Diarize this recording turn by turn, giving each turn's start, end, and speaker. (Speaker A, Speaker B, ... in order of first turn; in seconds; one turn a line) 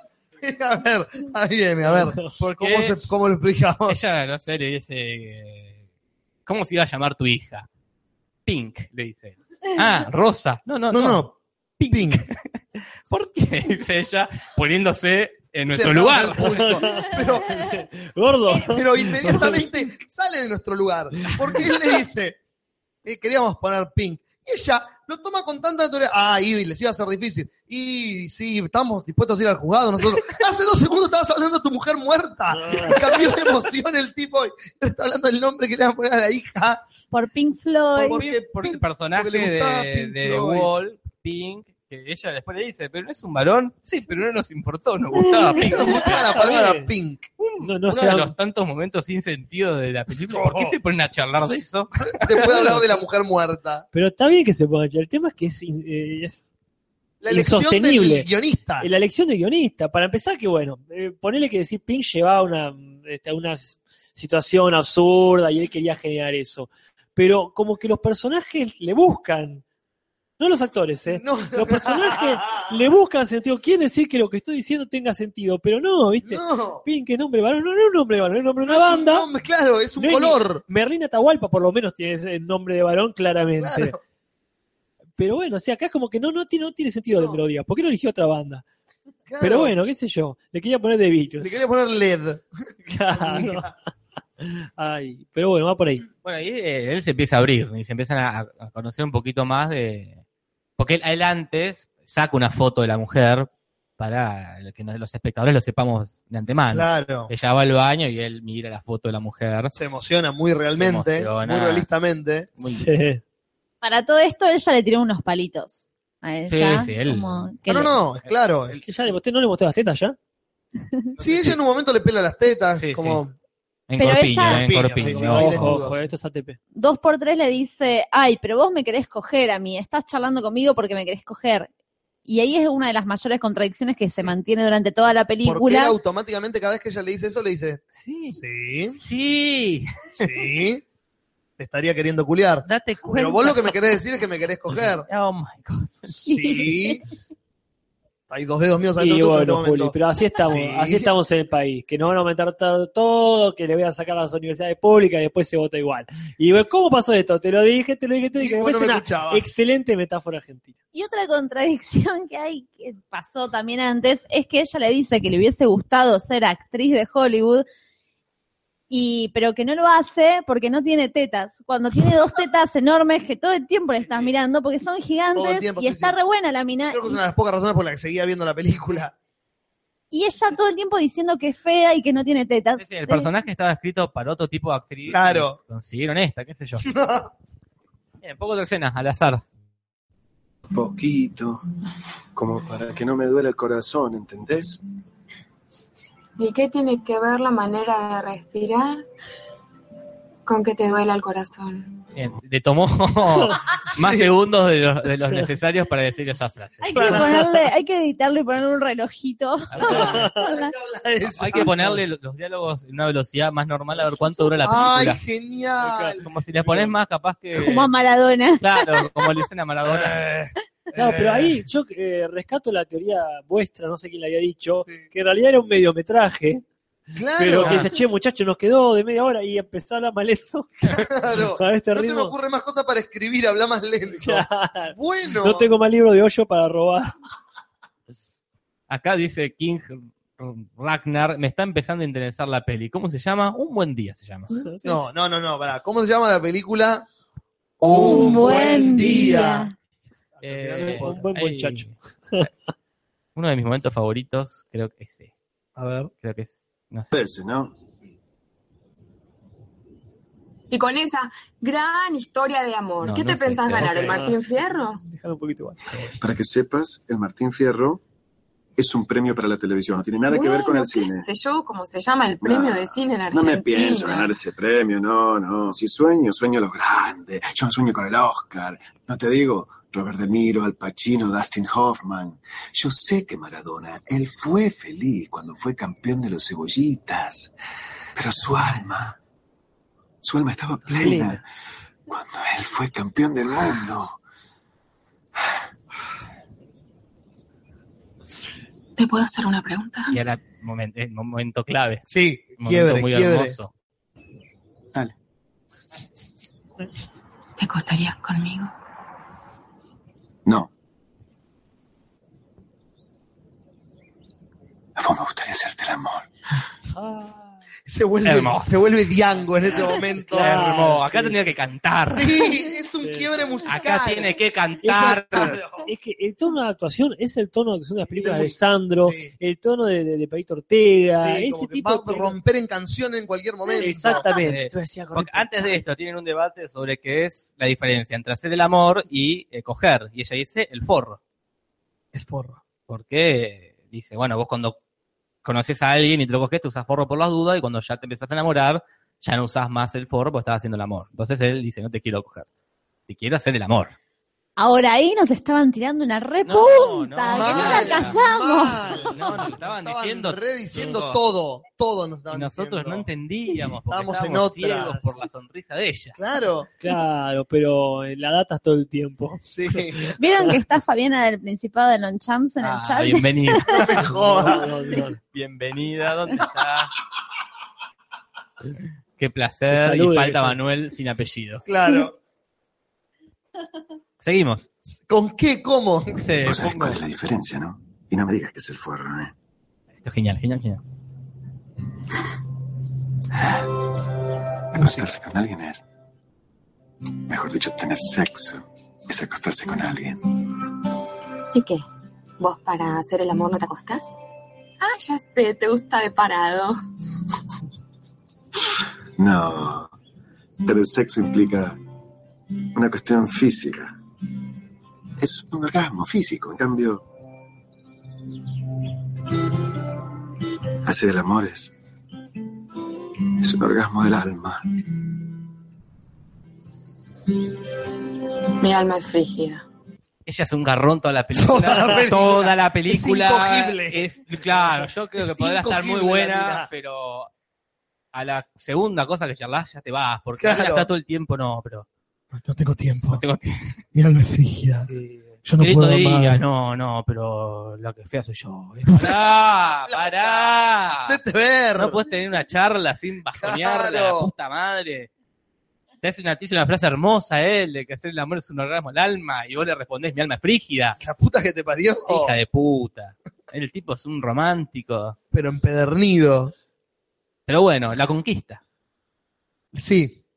Speaker A: 0.4-4.0
Speaker B: 1.9-2.3
Speaker C: 2.4-3.1
Speaker C: 3.9-5.8
Speaker C: 6.5-7.7
Speaker C: 8.5-11.2
Speaker A: 10.9-11.3
Speaker C: 11.8-12.4
Speaker A: 11.9-12.3
Speaker C: 13.1-16.8
Speaker A: 15.7-17.7
Speaker B: 16.5-19.7
Speaker A: 18.7-22.4
Speaker A: 23.1-36.9
Speaker B: 32.5-33.0
Speaker D: 37.1-38.2
Speaker C: 38.0-46.4
Speaker A: 38.0-40.7
Speaker A: 45.6-47.3
Speaker B: 46.3-46.9
Speaker C: 47.4-52.8
Speaker B: 47.6-48.3
Speaker A: 50.3-50.8
Speaker A: 52.1-53.9
Speaker B: 53.9-56.5
Speaker A: 57.2-58.9
Speaker B: 57.3-58.3
Speaker B: 58.8-69.6
Speaker B: 70.4-79.3
Speaker A: 71.1-72.7
Speaker A: 76.2-76.8
Speaker A: 78.7-80.6
Speaker B: 80.0-84.0
Speaker A: 83.6-84.0
Speaker B: 85.2-88.6
Speaker A: 87.2-87.4
Speaker A: 89.3-89.7
Speaker B: 89.4-91.7
Speaker A: 91.4-92.5
Speaker B: 92.9-93.7
Speaker A: 93.1-93.7
Speaker B: 94.4-96.0
Speaker C: 96.2-100.2
Speaker C: 100.8-109.7
Speaker A: 106.7-107.3
Speaker A: 109.7-112.5
Speaker C: 110.8-111.9
Speaker C: 112.6-112.9
Speaker B: 112.6-113.2
Speaker D: 113.8-118.0
Speaker C: 116.5-118.8
Speaker A: 117.7-118.8
Speaker B: 118.8-120.2
Speaker C: 121.2-121.6
Speaker A: 121.2-123.3
Speaker C: 122.8-123.2
Speaker C: 123.9-125.8
Speaker D: 124.0-124.7
Speaker A: 124.3-126.1
Speaker B: 125.0-126.6
Speaker D: 126.8-131.7
Speaker D: 132.3-135.9
Speaker A: 135.4-137.8
Speaker C: 137.9-138.4
Speaker A: 138.3-139.0
Speaker C: 139.0-139.9
Speaker A: 140.2-140.8
Speaker A: 141.6-145.1
Speaker C: 142.7-144.0
Speaker C: 144.7-146.2
Speaker A: 146.2-147.0
Speaker D: 146.3-147.0
Speaker A: 148.3-151.1
Speaker B: 149.0-160.8
Speaker A: 158.4-159.5
Speaker D: 160.9-167.7
Speaker D: 168.9-177.2
Speaker A: 175.3-176.2
Speaker A: 176.9-179.1
Speaker D: 180.1-183.3
Speaker C: 182.8-186.9
Speaker A: 185.1-185.6
Speaker A: 186.8-187.3
Speaker C: 188.2-189.4
Speaker E: 190.7-191.6
Speaker E: 192.3-194.8
Speaker F: 196.4-199.0
Speaker F: 200.5-201.9
Speaker C: 202.2-207.2
Speaker A: 203.9-204.3
Speaker D: 206.8-210.7
Speaker A: 206.9-207.4
Speaker C: 209.7-210.2
Speaker B: 209.8-210.4
Speaker A: 209.8-211.8
Speaker C: 211.4-215.2
Speaker A: 214.6-216.2
Speaker B: 215.8-216.9
Speaker C: 216.2-217.9
Speaker D: 217.6-219.4
Speaker C: 218.6-220.2
Speaker A: 219.8-221.6
Speaker B: 220.9-226.7
Speaker A: 227.2-227.9
Speaker B: 227.4-232.3
Speaker A: 230.9-235.7
Speaker B: 234.2-237.1
Speaker C: 238.9-244.5
Speaker B: 244.5-245.1
Speaker A: 244.8-247.1
Speaker A: 247.8-249.7
Speaker D: 247.9-249.7
Speaker A: 250.4-251.2
Speaker C: 250.4-252.5
Speaker B: 250.9-252.5
Speaker C: 253.4-255.3
Speaker A: 255.8-256.1
Speaker C: 256.2-257.1
Speaker E: 257.1-257.7
Speaker F: 260.7-265.0
Speaker C: 263.0-263.9
Speaker B: 263.9-264.4
Speaker B: 265.0-266.1
Speaker E: 266.2-268.0
Speaker E: 268.8-271.3
Speaker F: 270.3-274.3
Speaker E: 272.4-287.5
Speaker E: 288.2-289.2
Speaker E: 290.2-291.4
Speaker B: 290.8-291.4
Speaker E: 292.1-294.2
Speaker F: 299.0-300.2
Speaker C: 300.1-302.1
Speaker A: 302.1-303.6
Speaker C: 302.6-303.7
Speaker F: 307.6-308.7
Speaker E: 310.4-310.7
Speaker E: 315.0-316.3
Speaker B: 316.9-317.6
Speaker A: 317.9-320.6
Speaker C: 318.2-318.9
Speaker B: 319.6-321.4
Speaker C: 320.3-322.5
Speaker A: 322.1-324.4
Speaker B: 323.0-323.3
Speaker C: 323.6-325.6
Speaker B: 324.8-332.4
Speaker A: 325.3-325.9
Speaker A: 328.1-329.3
Speaker A: 331.1-334.3
Speaker B: 333.8-335.8
Speaker C: 334.4-341.2
Speaker A: 342.1-342.6
Speaker C: 342.9-344.8
Speaker C: 345.4-352.5
Speaker C: 353.1-353.9
Speaker D: 354.6-359.0
Speaker C: 356.4-358.2
Speaker A: 357.3-363.1
Speaker C: 359.1-361.2
Speaker C: 362.3-366.2
Speaker A: 363.9-364.9
Speaker A: 366.2-366.7
Speaker B: 366.8-369.4
Speaker A: 369.4-370.1
Speaker D: 370.2-373.9
Speaker C: 372.6-374.1
Speaker A: 373.7-374.7
Speaker B: 374.0-375.2
Speaker C: 375.3-376.9
Speaker C: 379.2-381.6
Speaker B: 379.7-380.6
Speaker A: 381.7-382.1
Speaker C: 384.2-384.7
Speaker A: 384.9-386.3
Speaker C: 386.2-387.0
Speaker E: 386.4-389.3
Speaker C: 390.0-390.8
Speaker E: 394.8-395.8
Speaker A: 394.8-395.1
Speaker E: 397.3-400.4
Speaker F: 401.5-401.8
Speaker F: 402.4-404.1
Speaker F: 404.8-406.8
Speaker E: 409.2-409.9
Speaker E: 410.6-411.8
Speaker E: 412.7-413.9
Speaker E: 415.2-417.0
Speaker E: 420.9-421.7
Speaker E: 423.4-424.6
Speaker F: 428.6-429.7
Speaker C: 430.3-437.3
Speaker A: 431.3-436.7
Speaker C: 438.1-441.9
Speaker A: 440.4-440.9
Speaker A: 442.3-443.2
Speaker C: 443.1-443.8
Speaker A: 443.9-444.9
Speaker B: 444.9-445.2
Speaker A: 445.4-446.4
Speaker C: 445.6-451.2
Speaker A: 448.9-449.3
Speaker A: 449.9-452.0
Speaker C: 451.8-455.1
Speaker A: 453.4-454.3
Speaker C: 456.0-461.0
Speaker A: 461.0-462.3
Speaker C: 462.1-465.2
Speaker A: 465.3-466.5
Speaker C: 467.5-468.6
Speaker A: 469.7-470.2